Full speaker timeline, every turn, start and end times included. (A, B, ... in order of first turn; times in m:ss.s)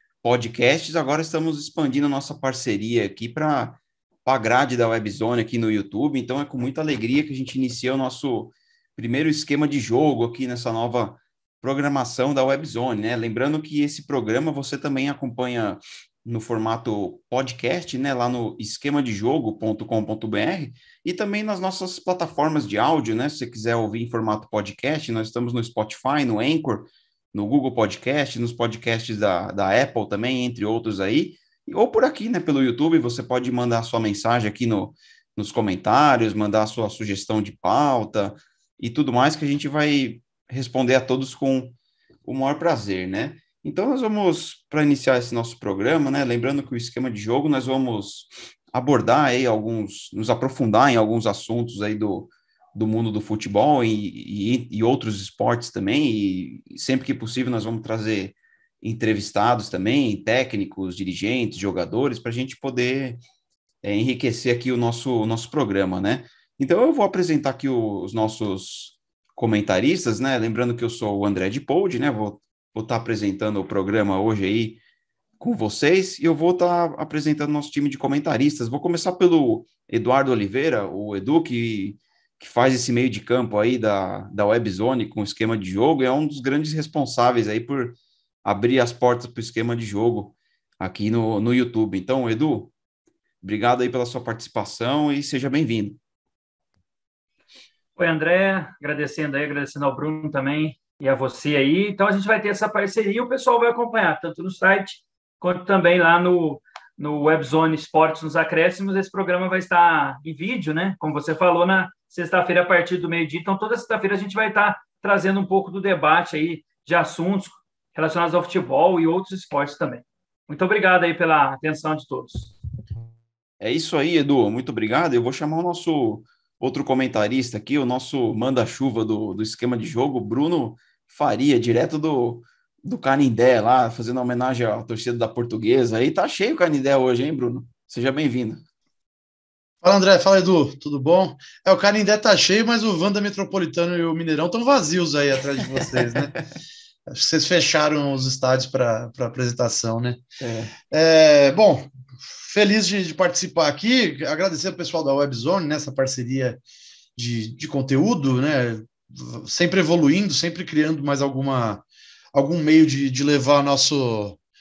0:00.2-1:03.2 A
1:03.8-1:14.8 A
1:15.4-1:32.7 A
1:33.4-1:36.0 A
1:38.0-2:02.5 B
2:03.6-2:18.6 A
2:19.8-2:26.4 C
2:25.8-2:26.3 A
2:27.1-2:30.2 C
2:30.4-2:30.7 A
2:30.9-2:36.6 C
2:37.2-2:44.4 C